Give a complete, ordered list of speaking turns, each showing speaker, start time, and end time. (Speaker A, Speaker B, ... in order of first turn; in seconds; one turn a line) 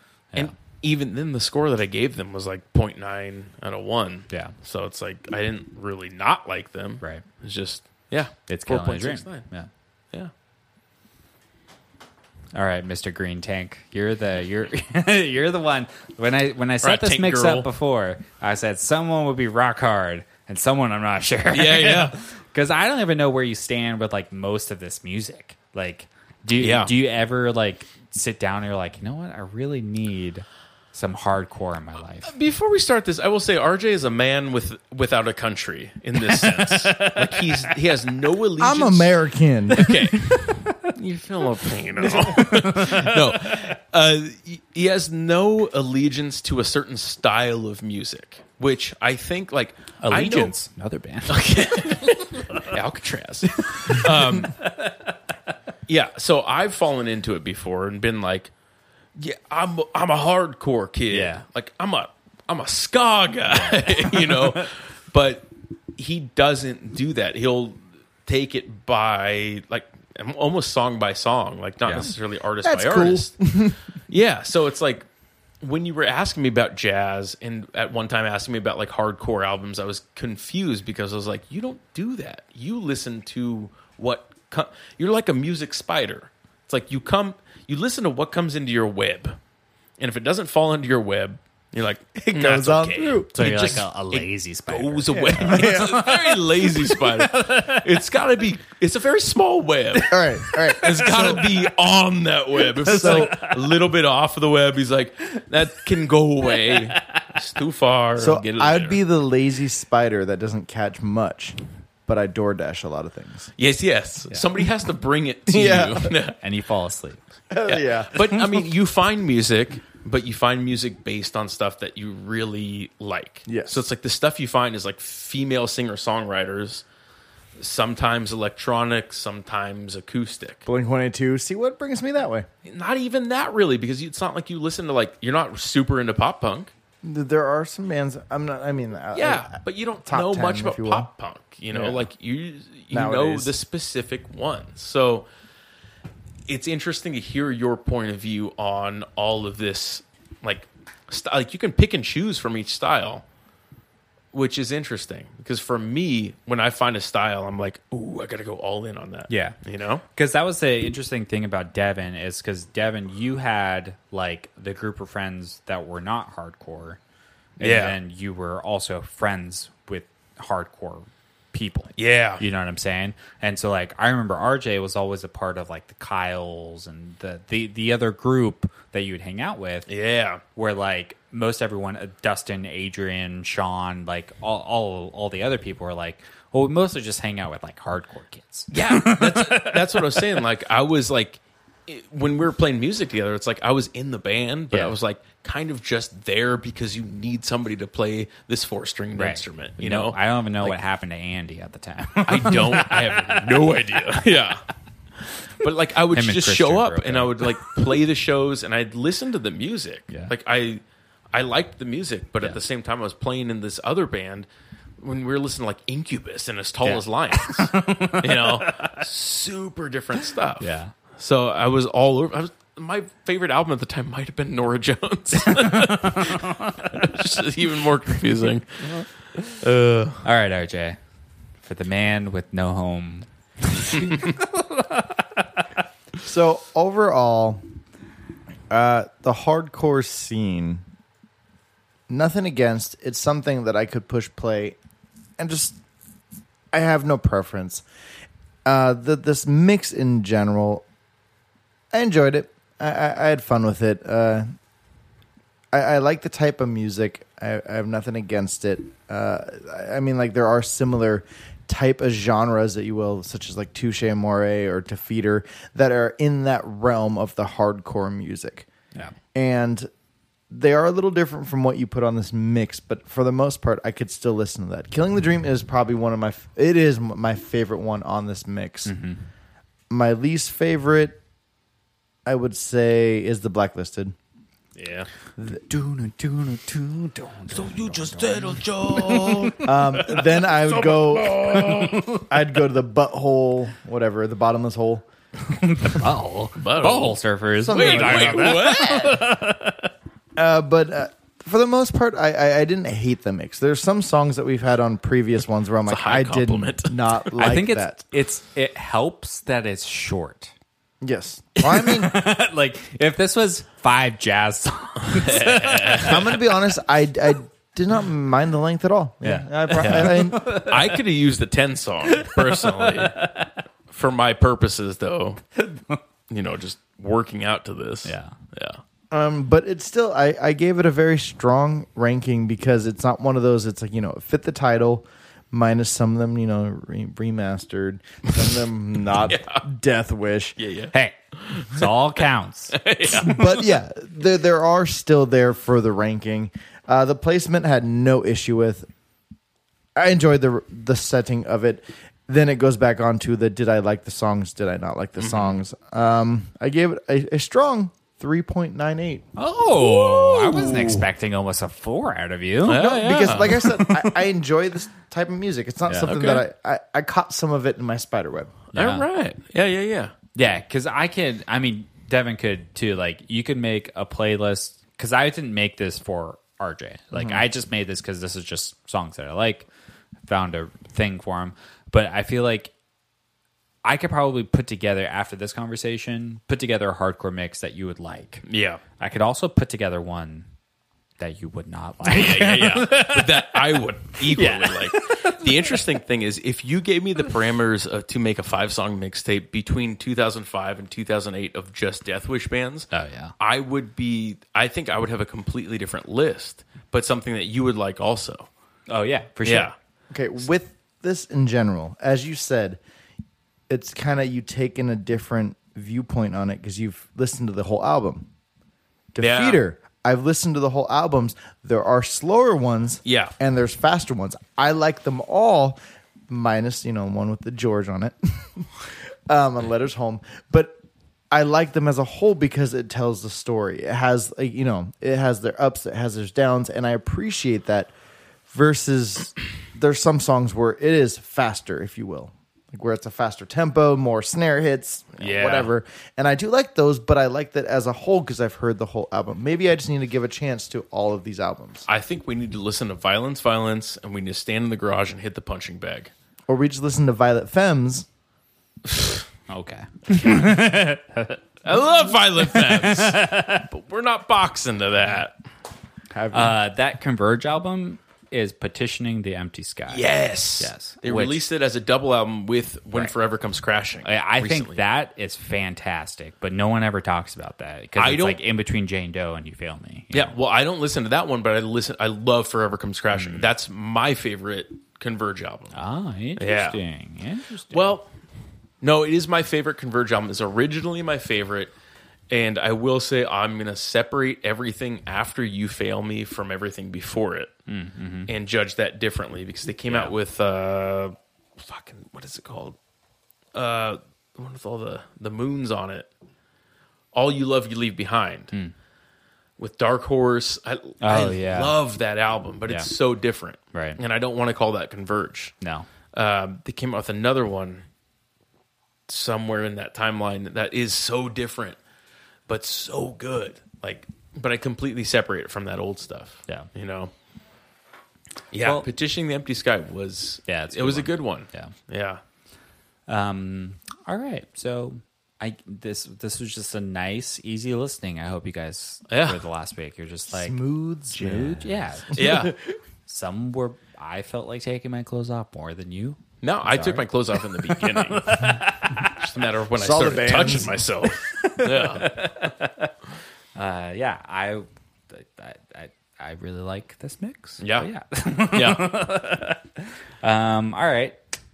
Speaker A: 0.4-9.5
Speaker B: 8.5-9.7
Speaker B: 12.5-32.3
Speaker A: 16.8-17.7
Speaker A: 21.5-22.2
Speaker A: 26.6-26.9
Speaker A: 32.2-50.6
Speaker B: 36.3-37.8
Speaker C: 38.6-39.9
Speaker B: 39.8-40.9
Speaker B: 42.1-43.7
Speaker B: 50.0-52.7
Speaker A: 51.3-54.5
Speaker B: 53.6-55.1
Speaker A: 55.9-58.5
Speaker A: 59.2-73.4
Speaker B: 61.1-61.4
Speaker B: 63.5-64.7
Speaker B: 71.8-72.1
Speaker C: 72.6-73.8
Speaker A: 74.1-75.1
Speaker A: 75.6-89.4
Speaker A: 90.0-109.0
Speaker C: 92.3-93.3
Speaker B: 93.3-98.0
Speaker C: 95.2-96.0
Speaker C: 100.1-101.5
Speaker B: 100.4-101.7
Speaker B: 102.6-103.7
Speaker C: 102.9-103.4
Speaker B: 106.5-107.3
Speaker C: 108.2-113.5
Speaker A: 113.6-116.4
Speaker C: 115.5-116.2
Speaker B: 116.4-117.2
Speaker C: 117.5-118.3
Speaker A: 117.7-126.8
Speaker C: 123.5-123.8
Speaker A: 127.6-130.6
Speaker C: 130.7-132.5
Speaker A: 132.7-136.7
Speaker C: 137.0-141.1
Speaker A: 139.1-145.3
Speaker C: 141.7-142.1
Speaker C: 142.9-143.5
Speaker A: 146.5-153.2
Speaker A: 154.3-160.0
Speaker B: 159.3-159.6
Speaker B: 160.2-167.0
Speaker B: 167.6-179.9
Speaker A: 167.6-168.0
Speaker A: 172.0-172.4
Speaker A: 179.9-180.4
Speaker B: 180.6-190.4
Speaker A: 188.7-200.8
Speaker B: 199.2-204.0
Speaker A: 202.3-204.6
Speaker A: 205.5-210.8
Speaker B: 206.1-207.7
Speaker A: 211.3-214.5
Speaker A: 215.0-230.2
Speaker B: 216.8-219.0
Speaker B: 220.6-220.9
Speaker B: 225.4-227.2
Speaker B: 230.2-231.0
Speaker B: 231.6-235.7
Speaker C: 236.2-237.6
Speaker C: 238.7-240.8
Speaker C: 242.1-244.8
Speaker C: 245.4-245.8
Speaker C: 246.7-247.8
Speaker C: 248.7-250.8
Speaker C: 251.9-254.5
Speaker C: 255.7-268.7
Speaker C: 269.3-269.9
Speaker C: 270.5-278.9
Speaker B: 278.9-279.2
Speaker C: 279.9-281.2
Speaker C: 282.2-284.1
Speaker A: 284.8-285.1
Speaker B: 285.5-289.7
Speaker A: 287.5-292.2
Speaker C: 289.6-291.6
Speaker B: 291.6-292.3
Speaker C: 292.2-295.1
Speaker B: 295.5-299.9
Speaker A: 296.6-299.2
Speaker C: 297.6-298.8
Speaker C: 300.4-308.0
Speaker A: 305.9-307.3
Speaker B: 307.4-310.5
Speaker C: 311.0-312.2
Speaker B: 311.6-316.2
Speaker A: 315.1-316.3
Speaker C: 316.0-320.5
Speaker B: 319.2-321.0
Speaker A: 319.8-323.2
Speaker B: 322.1-323.5
Speaker A: 323.9-325.4
Speaker B: 325.6-326.0
Speaker A: 326.3-328.8
Speaker B: 328.1-328.4
Speaker C: 329.1-340.6
Speaker A: 339.2-339.6
Speaker A: 340.6-343.8
Speaker B: 340.9-343.3
Speaker C: 343.1-348.9
Speaker C: 350.0-359.2
Speaker A: 355.2-355.6
Speaker B: 359.4-364.1
Speaker A: 359.7-361.1
Speaker A: 362.7-363.8
Speaker C: 362.7-368.6
Speaker B: 365.9-366.2
Speaker A: 366.1-366.4
Speaker B: 368.7-369.1
Speaker A: 368.7-370.1
Speaker B: 370.4-379.7
Speaker C: 377.1-377.4
Speaker B: 380.3-382.7
Speaker B: 383.8-388.4
Speaker A: 388.4-388.8
Speaker B: 389.0-390.5
Speaker B: 391.2-395.8
Speaker A: 392.0-408.5
Speaker B: 402.9-403.3
Speaker B: 408.9-409.7
Speaker A: 409.4-409.7
Speaker C: 410.1-412.8
Speaker C: 413.7-418.3
Speaker C: 419.1-425.8
Speaker A: 419.2-419.6
Speaker A: 423.1-423.3
Speaker C: 426.3-430.8
Speaker C: 431.3-437.9
Speaker C: 438.5-451.9
Speaker A: 445.2-445.7
Speaker A: 451.9-456.1
Speaker C: 456.5-458.1
Speaker B: 459.5-461.4
Speaker A: 461.6-465.3
Speaker B: 462.4-463.7
Speaker C: 466.1-466.5
Speaker B: 466.3-470.1
Speaker A: 469.9-474.8
Speaker B: 470.6-471.4
Speaker B: 474.0-480.3
Speaker A: 478.0-478.4
Speaker A: 480.1-485.8
Speaker B: 483.1-483.5
Speaker B: 485.7-487.9
Speaker A: 486.4-486.8
Speaker A: 487.7-488.1
Speaker A: 488.8-491.7
Speaker A: 492.3-497.5
Speaker B: 497.7-498.3
Speaker A: 498.3-502.8
Speaker B: 499.9-500.1
Speaker A: 503.5-506.1
Speaker A: 507.1-508.5
Speaker A: 509.6-515.5
Speaker B: 511.0-511.8
Speaker B: 513.7-514.0
Speaker B: 515.6-515.9
Speaker A: 516.1-517.8
Speaker A: 519.1-521.8
Speaker A: 522.5-527.1
Speaker A: 528.5-532.2
Speaker B: 530.5-531.7
Speaker B: 533.1-540.6
Speaker A: 539.1-539.4
Speaker C: 540.3-542.5
Speaker B: 541.1-542.5
Speaker A: 542.1-542.6
Speaker B: 543.1-549.3
Speaker A: 546.4-548.5
Speaker A: 549.1-552.1
Speaker C: 549.8-550.8
Speaker B: 551.1-552.9
Speaker B: 553.6-561.2
Speaker A: 557.6-557.9
Speaker A: 558.5-559.0